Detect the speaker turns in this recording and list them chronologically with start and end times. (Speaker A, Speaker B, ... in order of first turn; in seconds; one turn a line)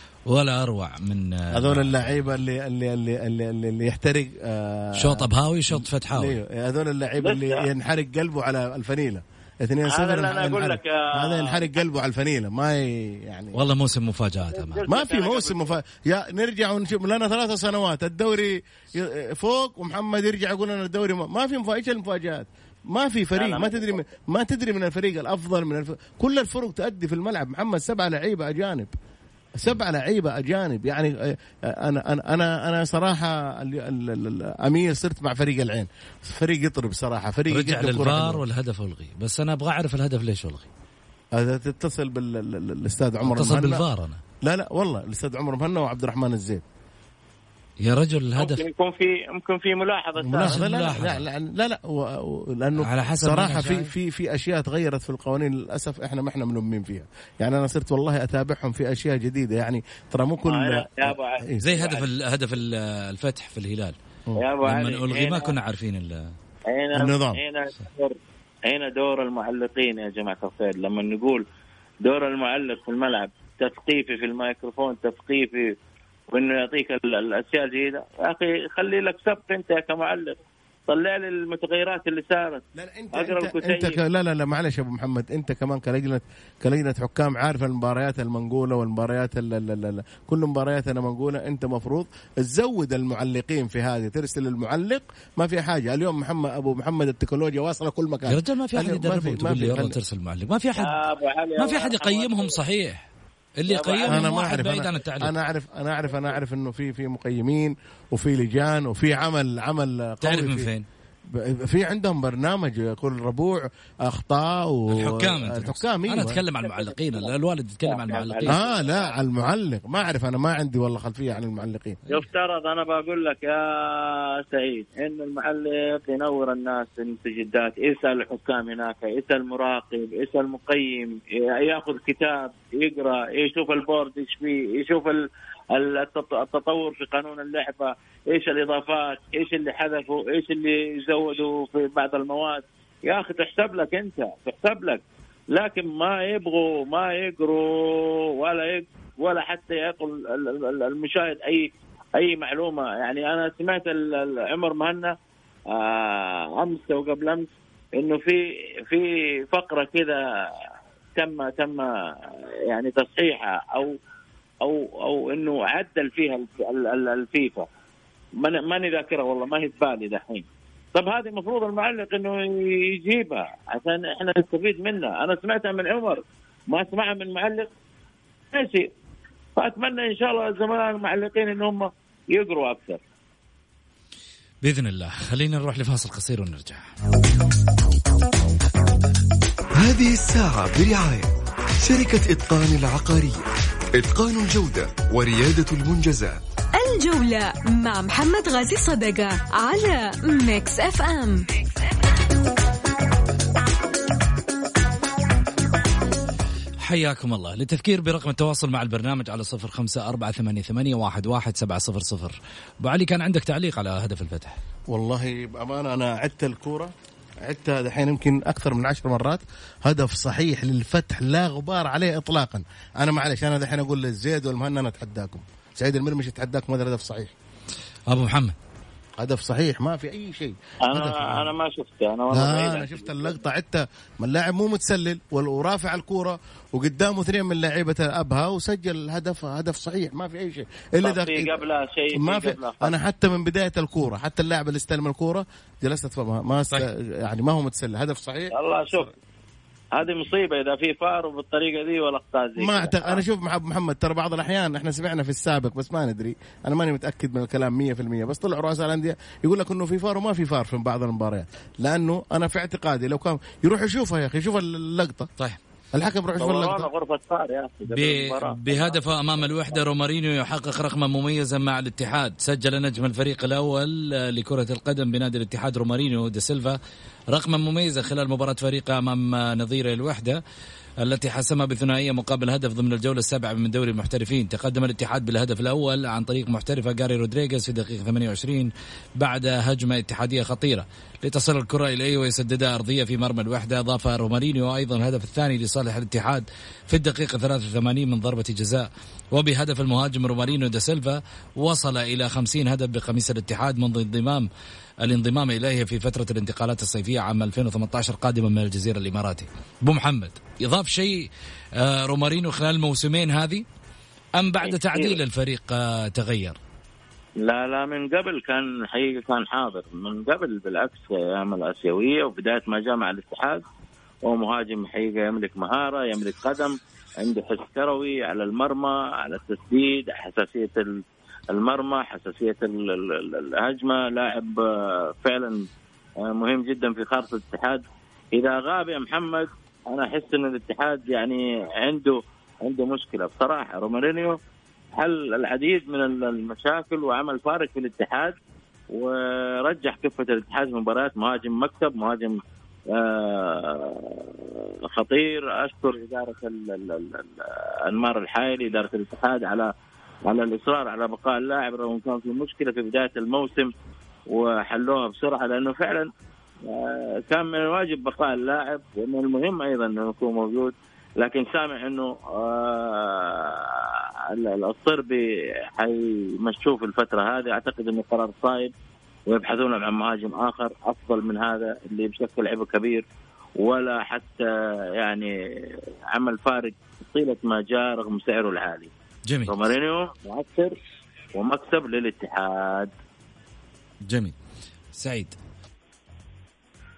Speaker A: 0.3-2.3
Speaker B: 1.5-13.6
Speaker A: 5.0-6.4
Speaker C: 7.2-7.6
Speaker C: 9.8-11.7
Speaker A: 13.5-14.8
Speaker C: 14.5-15.7
Speaker B: 14.9-28.9
Speaker C: 23.3-24.0
Speaker B: 29.6-38.4
Speaker A: 37.5-40.7
Speaker B: 41.3-43.8
Speaker A: 43.2-44.2
Speaker B: 44.4-46.6
Speaker A: 47.8-48.6
Speaker C: 48.4-50.6
Speaker B: 50.2-61.7
Speaker A: 50.5-51.2
Speaker A: 52.8-53.9
Speaker C: 60.5-62.1
Speaker A: 61.6-63.9
Speaker C: 64.4-65.5
Speaker A: 64.6-66.3
Speaker C: 66.7-71.4
Speaker B: 66.9-67.4
Speaker C: 72.0-75.7
Speaker C: 76.3-80.4
Speaker C: 80.9-82.6
Speaker B: 82.8-100.0
Speaker C: 83.1-84.0
Speaker A: 98.3-101.0
Speaker C: 100.8-102.6
Speaker A: 101.6-103.1
Speaker A: 103.6-105.3
Speaker C: 103.7-104.3
Speaker B: 104.1-110.7
Speaker A: 110.2-110.8
Speaker B: 111.3-116.4
Speaker A: 114.9-118.6
Speaker C: 116.6-117.3
Speaker C: 117.8-119.1
Speaker B: 118.5-122.0
Speaker C: 122.1-145.0
Speaker C: 145.5-155.1
Speaker C: 155.7-160.2
Speaker C: 161.2-161.9
Speaker C: 162.7-163.9
Speaker C: 164.6-167.7
Speaker C: 168.4-177.7
Speaker C: 178.5-178.9
Speaker C: 179.6-183.0
Speaker A: 184.6-186.9
Speaker D: 189.8-191.3
Speaker D: 191.8-196.4
Speaker E: 196.8-201.5
Speaker A: 206.8-214.6
Speaker B: 214.9-227.3
Speaker A: 228.1-228.5
Speaker B: 229.2-231.5
Speaker C: 230.8-233.4
Speaker B: 232.3-241.6
Speaker C: 241.0-242.9
Speaker B: 242.1-249.1
Speaker C: 248.5-249.1
Speaker C: 249.9-253.2
Speaker B: 252.6-265.3
Speaker B: 265.9-266.9
Speaker C: 266.4-269.8
Speaker A: 267.9-276.8
Speaker A: 277.3-280.4
Speaker A: 281.0-304.5
Speaker A: 305.0-313.6
Speaker A: 314.4-316.6
Speaker C: 314.6-315.2
Speaker C: 317.4-323.6
Speaker C: 324.2-331.0
Speaker C: 331.5-335.6
Speaker C: 336.2-344.4
Speaker C: 344.9-348.3
Speaker C: 348.9-352.4
Speaker C: 352.9-359.7
Speaker C: 360.3-363.7
Speaker C: 364.3-366.1
Speaker C: 366.6-378.7
Speaker C: 379.3-383.0
Speaker C: 383.6-388.9
Speaker A: 389.3-389.6
Speaker C: 389.5-390.8
Speaker C: 391.3-392.9
Speaker A: 394.1-394.3
Speaker A: 394.9-395.3